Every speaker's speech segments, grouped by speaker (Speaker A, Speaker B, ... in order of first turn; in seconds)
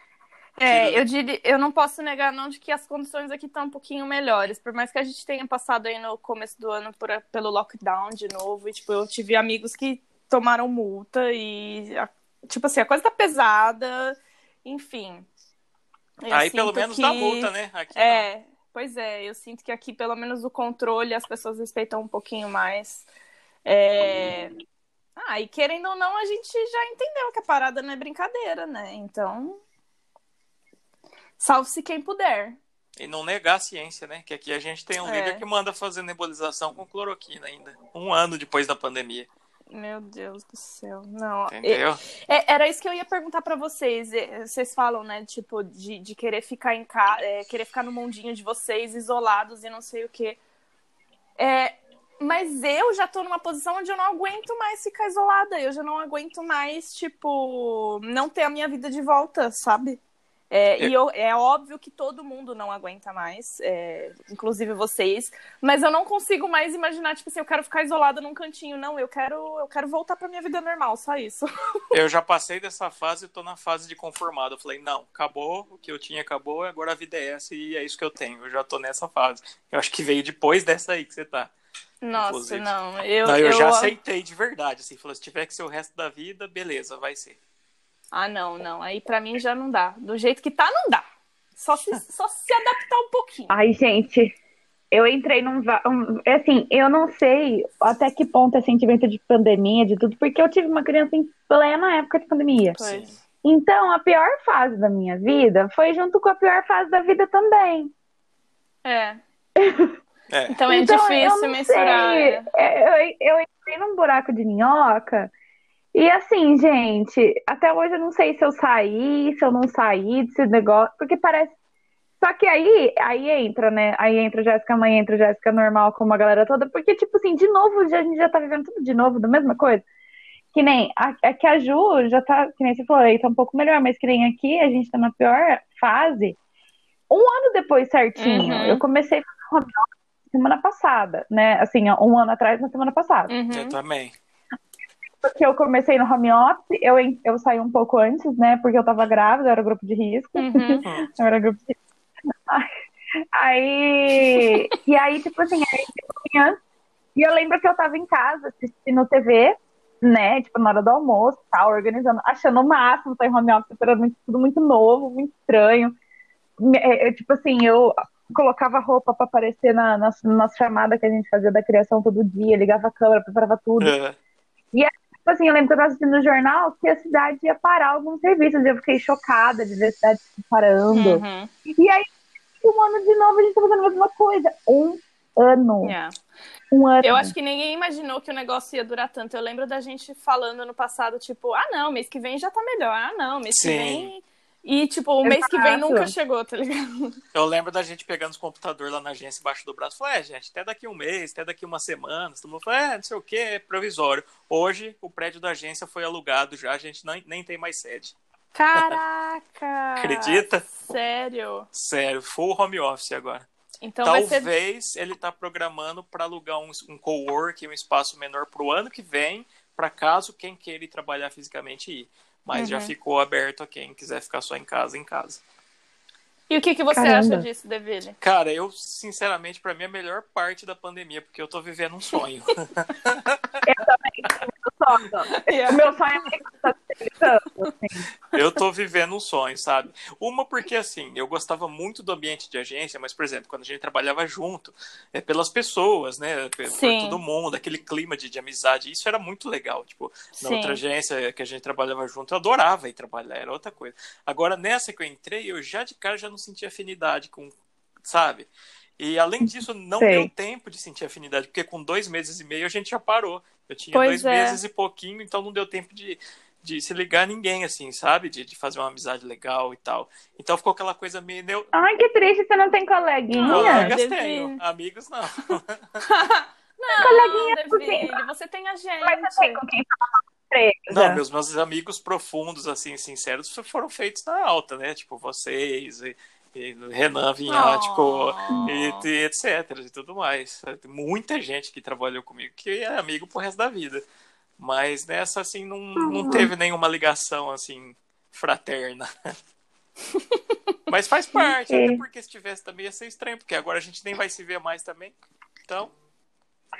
Speaker A: 0.6-15.3, 16.2-23.1, 23.6-24.5, 25.2-29.6, 31.4-32.6, 35.0-35.4, 39.7-50.4, 51.4-60.0, 60.5-71.5, 82.0-83.9, 88.1-93.5, 102.7-103.1, 108.8-109.2, 110.5-112.5, 138.2-138.8, 143.3-143.8, 150.3-150.8, 154.3-154.6, 180.9-181.5, 185.8-186.1, 187.0-197.2, 208.5-211.7, 213.8-214.5, 222.5-222.9, 226.5-228.2, 235.3-235.8, 246.7-247.2, 250.4-250.8, 263.9-264.6, 273.4-274.6, 276.0-279.6, 287.5-289.0
Speaker B: 0.7-1.0, 16.3-18.2, 33.0-39.3, 41.5-42.0, 71.9-81.5, 82.1-82.7, 83.2-87.4, 102.8-103.2, 110.3-110.6, 143.5-144.1, 173.8-174.2, 193.5-194.1, 197.3-208.2, 208.7-209.0, 210.0-210.7, 211.7-213.5, 214.0-225.4, 228.2-233.6, 238.3-271.7, 273.4-276.0, 280.9-294.0, 294.6-299.3, 300.9-305.1, 305.6-305.9
Speaker C: 93.5-94.3, 94.9-102.8, 103.4-107.9, 109.6-109.9, 110.7-115.3, 115.9-121.5, 122.2-129.8, 130.5-136.4, 137.1-143.3, 145.2-151.7, 153.3-156.6, 157.2-165.9, 166.6-173.9, 174.7-182.1, 182.6-185.9, 186.7-187.3, 195.2-196.1, 226.9-227.4, 233.6-238.1, 260.0-260.3, 271.7-273.9, 276.9-278.2, 279.0-281.2, 296.0-296.5, 301.6-302.0